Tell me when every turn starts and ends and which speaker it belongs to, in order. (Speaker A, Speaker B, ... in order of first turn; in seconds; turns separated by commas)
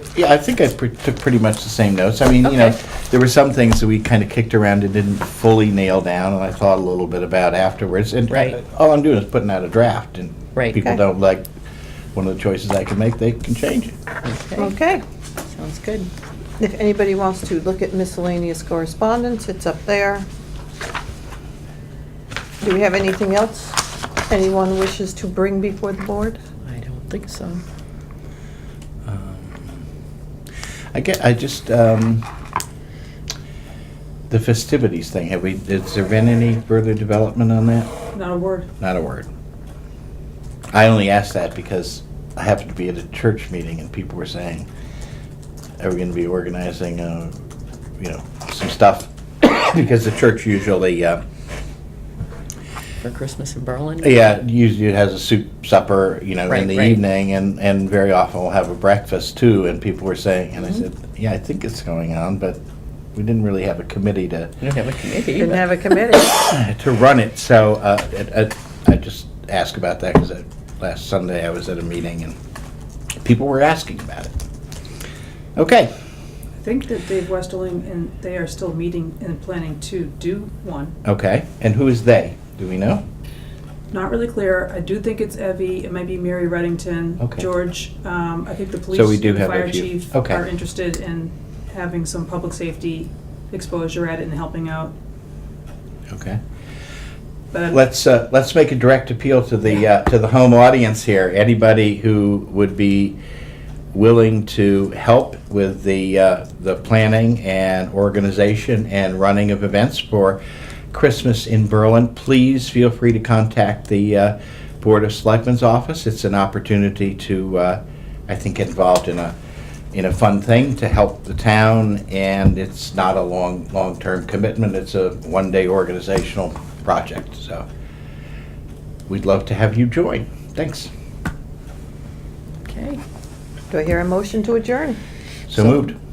Speaker A: 0.1-11.5, Speaker B: 2.5-2.7, Speaker B: 8.3-8.6, Speaker A: 12.1-13.9, Speaker B: 14.2-14.7, Speaker C: 14.6-15.0, Speaker B: 15.5-16.1, Speaker C: 16.6-20.2, Speaker C: 22.6-26.4, Speaker B: 26.6-27.6, Speaker A: 29.1-29.9, Speaker A: 30.9-32.2, Speaker A: 34.3-37.9, Speaker D: 38.1-38.7, Speaker A: 38.8-39.3, Speaker A: 40.7-44.7, Speaker A: 45.8-47.3, Speaker A: 48.0-51.2, Speaker B: 53.0-54.4, Speaker A: 54.0-62.6, Speaker B: 56.5-57.0, Speaker A: 63.1-64.5, Speaker B: 64.6-65.7, Speaker C: 65.4-66.4, Speaker A: 66.3-72.3, Speaker A: 73.2-74.3, Speaker A: 75.5-75.9, Speaker D: 76.6-80.9, Speaker A: 81.0-83.0, Speaker D: 83.9-94.9, Speaker A: 87.2-87.5, Speaker A: 88.9-90.4, Speaker A: 96.1-96.4, Speaker D: 97.5-97.8, Speaker A: 97.7-103.2, Speaker A: 103.9-110.4, Speaker A: 110.9-119.3, Speaker A: 119.9-127.7, Speaker A: 129.1-130.9, Speaker B: 132.7-133.0, Speaker C: 133.7-135.0, Speaker A: 135.5-136.0